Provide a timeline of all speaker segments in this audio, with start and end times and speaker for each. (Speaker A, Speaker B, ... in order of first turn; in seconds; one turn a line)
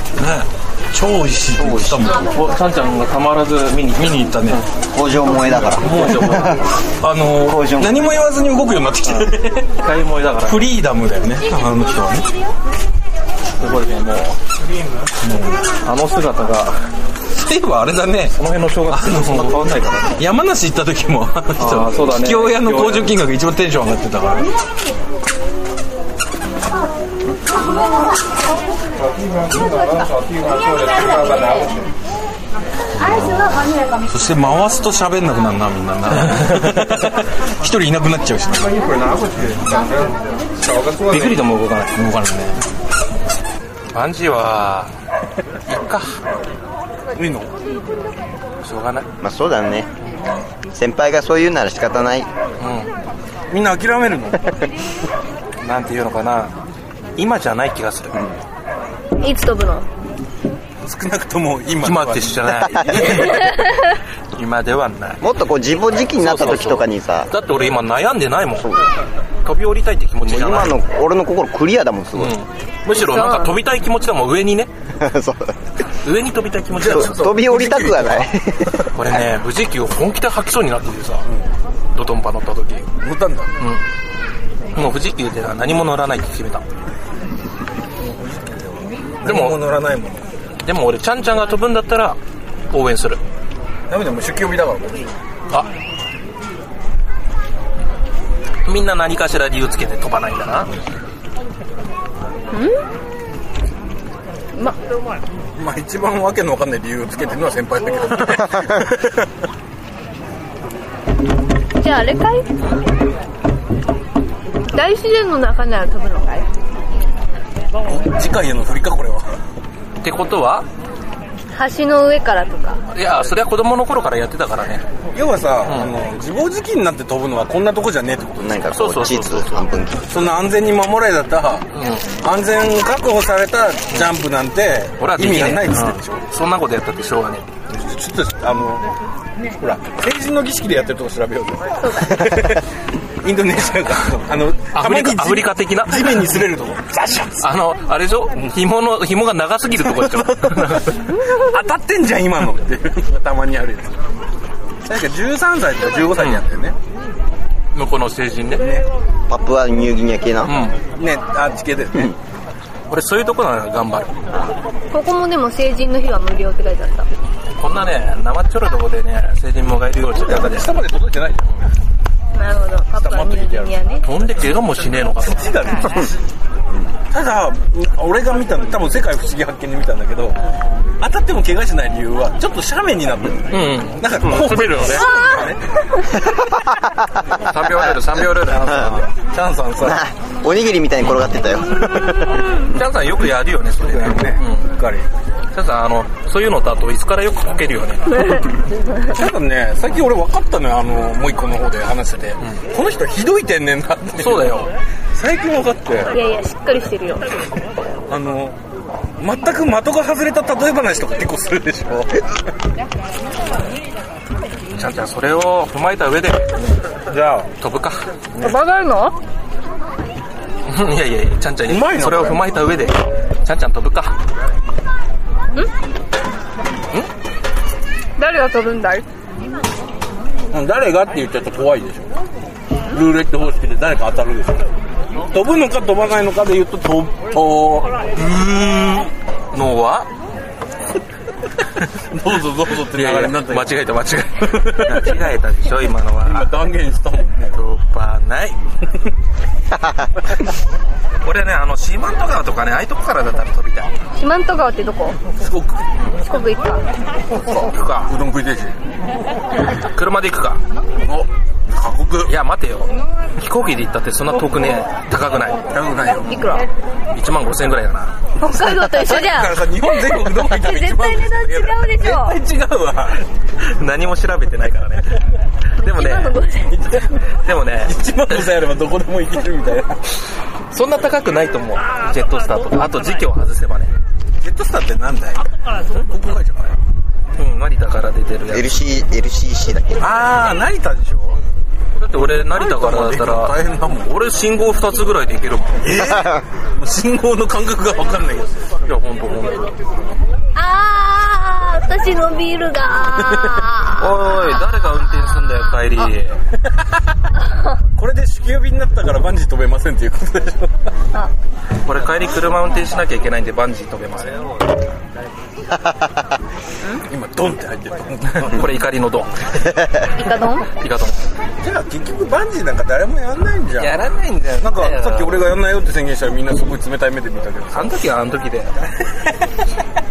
Speaker A: 0.2-2.3
Speaker B: 1.6-2.5
Speaker C: 2.3-4.7
Speaker A: 4.0-4.6
Speaker B: 4.9-6.5
Speaker A: 5.7-9.7
Speaker C: 5.8-6.6
Speaker B: 7.4-8.1
Speaker C: 9.8-10.6
Speaker A: 10.5-12.3
Speaker C: 13.6-14.4
Speaker A: 15.2-15.6
Speaker C: 15.8-16.9
Speaker A: 17.3-18.4
Speaker C: 18.4-20.2
Speaker A: 18.9-24.5
Speaker C: 21.6-23.2
Speaker A: 29.4-30.2
Speaker A: 33.0-42.6
Speaker C: 36.4-37.0
Speaker C: 41.0-42.0
Speaker C: 43.9-44.9
Speaker C: 45.7-46.2
Speaker A: 47.1-47.5
Speaker C: 48.6-49.1
Speaker B: 49.2-49.9
Speaker B: 50.7-52.3
Speaker C: 52.6-52.9
Speaker A: 53.5-54.5
Speaker C: 55.6-56.6
Speaker C: 57.2-58.2
Speaker D: 59.2-59.9
Speaker A: 60.8-63.5
Speaker C: 61.8-63.7
Speaker B: 62.6-63.2
Speaker C: 64.3-65.2
Speaker B: 65.2-67.3
Speaker C: 66.2-68.8
Speaker C: 69.4-70.8
Speaker B: 70.2-72.3
Speaker C: 72.2-74.7
Speaker D: 73.0-73.5
Speaker B: 75.0-75.6
Speaker C: 76.0-77.3
Speaker A: 76.7-78.9
Speaker B: 76.8-79.1
Speaker C: 78.9-81.3
Speaker C: 81.9-82.9
Speaker A: 83.0-83.5
Speaker C: 84.7-86.6
Speaker A: 88.0-90.3
Speaker C: 89.3-89.6
Speaker C: 90.6-92.2
Speaker C: 92.7-93.2
Speaker A: 93.9-95.1
Speaker C: 98.7-100.7
Speaker D: 102.5-102.8
Speaker A: 105.6-109.3
Speaker D: 111.8-112.5
Speaker D: 114.7-116.5
Speaker A: 117.8-119.3
Speaker C: 120.0-120.7
Speaker D: 121.5-122.8
Speaker C: 122.9-124.8
Speaker A: 125.1-128.6
Speaker C: 125.7-125.9
Speaker B: 128.4-130.1
Speaker C: 128.7-129.7
Speaker A: 130.1-136.2
Speaker C: 131.7-132.1
Speaker C: 135.0-137.5
Speaker A: 137.7-138.9
Speaker A: 139.6-142.7
Speaker D: 141.8-142.4
Speaker A: 143.2-147.5
Speaker C: 144.7-146.2
Speaker C: 147.4-151.1
Speaker A: 149.8-154.0
Speaker A: 154.8-156.8
Speaker C: 157.7-158.7
Speaker A: 158.6-158.9
Speaker B: 159.3-160.5
Speaker C: 160.4-160.8
Speaker A: 160.9-162.2
Speaker C: 162.9-164.3
Speaker D: 164.9-167.1
Speaker C: 167.6-170.7
Speaker A: 170.2-171.6
Speaker D: 172.3-174.1
Speaker A: 172.9-174.2
Speaker C: 174.1-175.5
Speaker A: 175.2-176.2
Speaker A: 177.1-180.4
Speaker A: 181.0-186.3
Speaker C: 183.5-185.1
Speaker B: 186.2-187.8
Speaker C: 187.4-189.1
Speaker A: 188.5-190.1
Speaker B: 188.6-189.0
Speaker B: 189.8-192.4
Speaker C: 192.6-194.7
Speaker A: 193.8-195.1
Speaker C: 195.5-198.4
Speaker A: 199.0-204.6
Speaker C: 204.2-204.7
Speaker A: 205.1-206.1
Speaker D: 206.1-207.3
Speaker A: 208.1-208.6
Speaker A: 209.2-212.3
Speaker C: 214.8-216.4
Speaker A: 217.1-217.5
Speaker C: 217.6-218.0
Speaker D: 218.4-219.2
Speaker C: 220.7-224.2
Speaker A: 221.7-222.6
Speaker D: 228.2-229.1
Speaker A: 230.5-232.1
Speaker A: 232.9-234.7
Speaker A: 235.2-238.0
Speaker C: 238.2-240.1
Speaker A: 242.1-243.8
Speaker C: 242.9-246.5
Speaker A: 244.4-245.2
Speaker A: 246.2-247.6
Speaker C: 247.5-248.6
Speaker B: 249.7-250.1
Speaker C: 251.2-253.9
Speaker D: 254.2-255.2
Speaker A: 255.4-255.9
Speaker D: 256.2-256.9
Speaker A: 257.3-258.8
Speaker C: 257.7-258.1
Speaker C: 259.7-260.6
Speaker A: 261.0-262.3
Speaker C: 262.3-265.6
Speaker A: 265.7-266.5
Speaker D: 266.2-266.7
Speaker C: 267.1-268.1
Speaker D: 268.4-272.4
Speaker A: 268.5-273.2
Speaker C: 273.6-276.4
Speaker D: 275.8-276.8
Speaker A: 276.7-277.3
Speaker C: 277.4-278.5
Speaker A: 277.8-280.0
Speaker C: 280.7-284.0
Speaker A: 284.4-286.8
Speaker C: 287.4-288.8
Speaker B: 288.5-290.1
Speaker A: 290.0-291.4
Speaker C: 291.9-295.8
Speaker A: 292.1-294.1
Speaker A: 295.8-298.7
Speaker B: 296.0-296.4
Speaker C: 298.9-299.7
Speaker D: 300.5-304.1
Speaker C: 303.9-306.4
Speaker A: 308.0-310.9
Speaker C: 311.9-314.6
Speaker B: 315.7-316.1
Speaker A: 317.0-318.8
Speaker C: 318.3-319.7
Speaker D: 320.2-320.7
Speaker C: 320.7-321.3
Speaker A: 321.6-324.0
Speaker C: 323.8-325.4
Speaker A: 324.6-327.9
Speaker C: 327.7-328.8
Speaker A: 328.8-329.3